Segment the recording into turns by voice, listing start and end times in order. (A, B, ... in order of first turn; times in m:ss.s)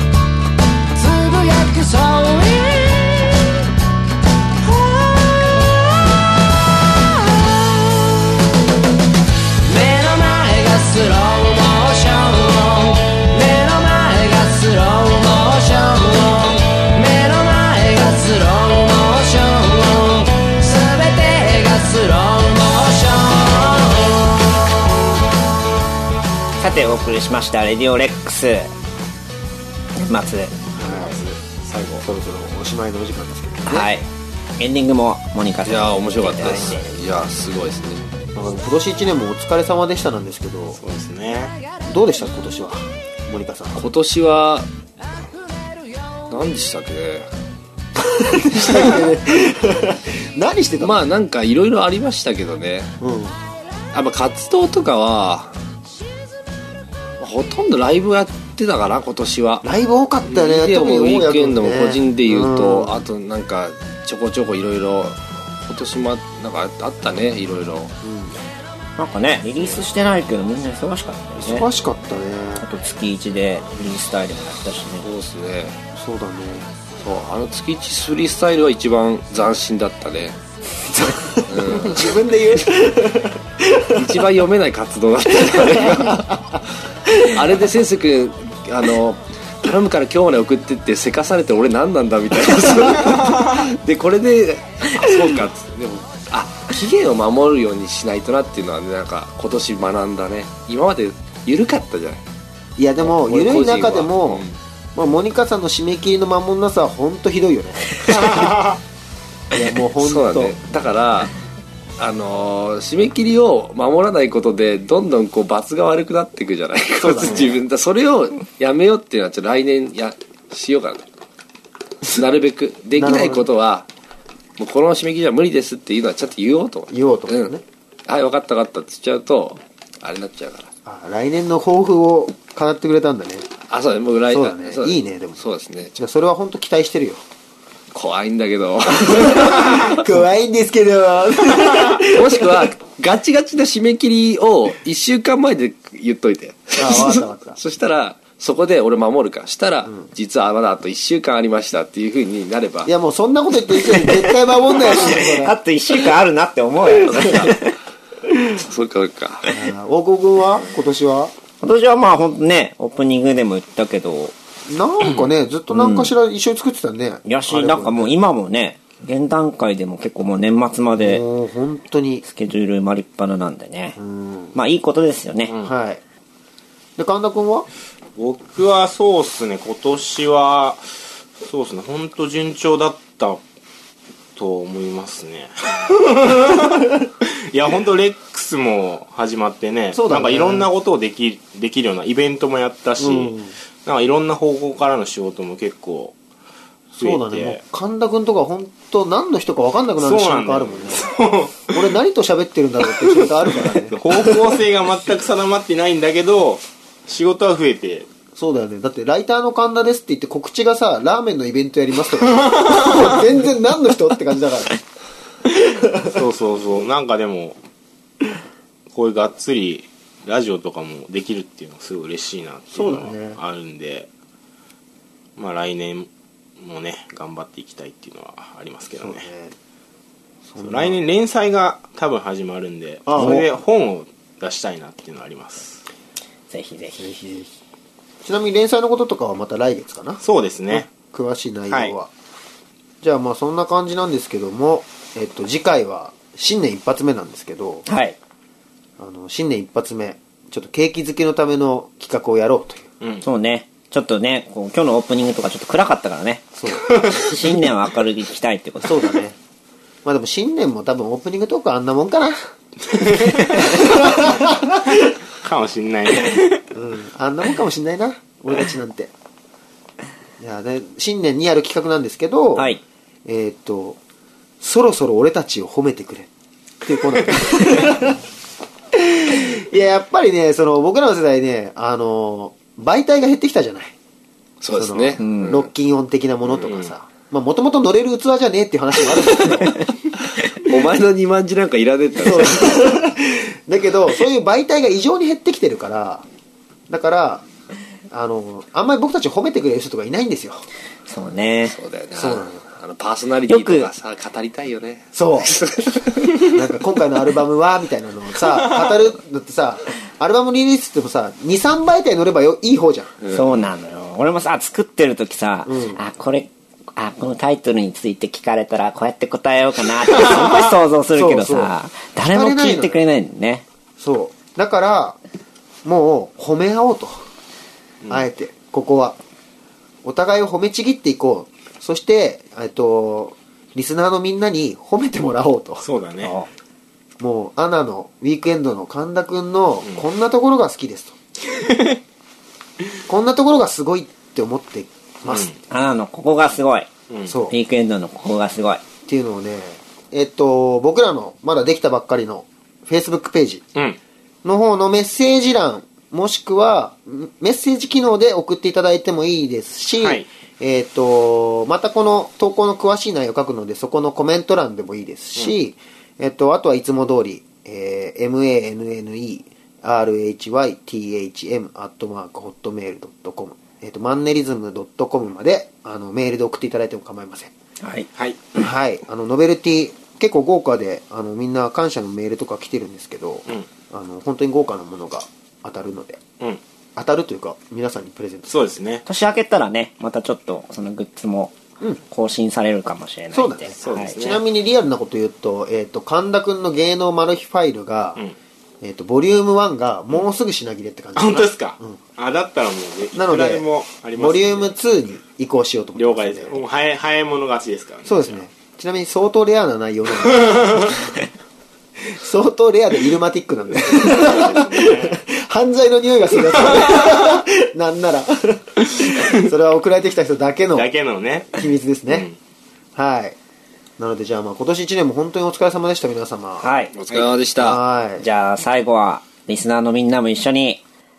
0:00.9-0:03.7 A
0:04.6-0:08.2 A
0:09.6-0:24.4 A
0:26.6-0:28.7 B
0:30.0-0:30.7 B
0:30.7-0:32.1 C
0:30.8-0:31.2 D
0:32.0-0:33.9 D
0:33.7-0:34.1 B
0:34.6-0:37.0 B
0:35.6-0:38.0 E
0:38.4-0:40.8 D
0:40.8-0:41.6 C
0:41.8-0:43.8 D
0:43.8-0:44.7 E
0:46.3-0:47.3 E
0:48.0-0:51.0 D
0:50.8-0:52.9 E
0:53.0-0:53.4 D
0:53.9-0:55.6 E
0:57.2-0:59.6 E
0:59.6-1:03.1 D
1:00.3-1:07.9 E
1:08.0-1:08.4 D
1:09.0-1:11.7 B
1:11.4-1:12.7 D
1:12.6-1:15.1 B
1:15.0-1:15.8 E
1:16.0-1:16.7 D
1:17.0-1:20.4 E
1:20.9-1:24.1 D
1:21.5-1:22.2 E
1:23.9-1:26.4 E
1:25.8-1:26.3 D
1:27.1-1:42.2 E
1:42.8-1:44.4 D
1:43.0-1:44.6 E
1:45.0-1:48.7 D
1:48.1-1:48.8 C
1:49.5-1:50.6 D
1:50.0-1:51.3 E
1:52.0-2:01.1 E
1:57.0-1:57.6 D
2:02.1-2:03.9 E
2:03.0-2:03.5 D
2:04.6-2:10.7 E
2:06.9-2:07.6 D
2:10.9-2:13.5 D
2:13.7-2:16.0 E
2:14.3-2:15.4 D
2:16.0-2:17.2 D
2:17.9-2:20.0 E
2:19.2-2:22.7 D
2:22.1-2:32.9 E
2:26.8-2:27.6 D
2:32.9-2:35.6 D
2:34.7-2:37.8 B
2:37.0-2:37.5 E
2:38.5-2:39.7 E
2:39.5-2:41.3 D
2:41.6-2:44.4 B
2:44.7-2:48.1 D
2:45.7-2:46.1 B
2:47.2-2:51.2 B
2:51.0-2:52.2 D
2:52.2-2:54.0 B
2:54.0-2:54.6 D
2:54.6-2:55.6 B
2:55.6-2:56.0 D
2:57.0-2:57.7 D
2:58.2-3:00.8 C
3:01.4-3:03.4 C
3:04.4-3:13.3 C
3:09.9-3:10.7 D
3:13.0-3:13.6 D
3:13.8-3:16.2 C
3:16.9-3:21.1 D
3:17.0-3:17.6 C
3:20.0-3:21.8 C
3:21.7-3:24.4 D
3:23.9-3:28.1 C
3:28.4-3:34.8 D
3:35.6-3:36.2 D
3:36.0-3:37.6 C
3:38.9-3:44.1 C
3:42.7-3:43.4 D
3:45.4-3:49.3 C
3:49.0-3:49.6 D
3:50.5-3:51.0 D
3:50.6-3:55.8 C
3:53.1-3:53.5 D
3:53.2-3:53.5 B
3:56.5-3:57.2 B
3:57.0-3:57.5 D
3:58.2-4:02.1 D
4:00.2-4:00.9 C
4:03.0-4:07.9 D
4:07.9-4:08.2 B
4:09.0-4:12.9 D
4:13.2-4:16.5 B
4:16.6-4:17.0 D
4:17.1-4:19.1 B
4:18.8-4:19.4 D
4:20.0-4:22.4 D
4:22.9-4:24.5 C
4:23.5-4:24.8 D
4:25.4-4:26.6 C
4:26.7-4:29.1 D
4:30.4-4:34.0 D
4:32.6-4:32.8 B
4:34.6-4:36.3 D
4:36.8-4:38.2 D
4:39.0-4:44.0 D
4:44.6-4:45.7 E
4:44.8-4:49.8 D
4:45.2-4:45.5 B
4:46.5-4:46.9 C
4:50.6-4:53.1 E
4:52.2-4:56.2 D
4:56.9-4:57.5 D
4:58.1-5:00.6 D
5:01.1-5:01.8 B
5:01.6-5:06.6 E
5:02.1-5:02.6 D
5:03.5-5:03.9 B
5:05.2-5:05.6 D
5:06.4-5:13.2 D
5:13.2-5:13.6 E
5:13.3-5:23.6 B
5:15.7-5:16.0 D
5:21.1-5:21.7 D
5:22.3-5:23.0 D
5:24.0-5:25.2 D
5:25.8-5:27.2 D
5:28.1-5:29.2 D
5:30.0-5:35.8 D
5:35.8-5:36.3 C
5:36.2-5:36.5 B
5:37.2-5:41.2 D
5:41.5-5:42.0 C
5:43.1-5:45.5 D
5:45.2-5:45.6 C
5:45.7-5:46.9 B
5:47.1-5:47.3 C
5:47.3-5:47.6 D
5:47.5-5:48.8 B
5:49.1-5:53.6 D
5:54.4-6:17.5 D
6:00.0-6:00.3 C
6:17.8-6:18.1 B
6:18.6-6:26.2 D
6:27.0-6:28.6 D
6:28.5-6:29.0 C
6:29.1-6:31.6 B
6:32.1-6:34.2 B
6:33.3-6:38.2 D
6:33.8-6:34.4 C
6:38.8-6:42.0 D
6:41.2-6:44.7 C
6:43.1-6:46.6 D
6:46.0-6:48.4 C
6:48.0-6:51.0 D
6:50.4-6:51.0 C
6:52.0-7:00.9 D
6:54.0-6:55.2 C
6:56.8-6:57.1 C
7:00.8-7:02.4 C
7:01.6-7:02.3 D
7:03.0-7:03.4 D
7:04.0-7:06.7 D
7:06.6-7:06.9 B
7:07.0-7:07.8 E
7:07.6-7:08.3 D
7:08.2-7:10.8 B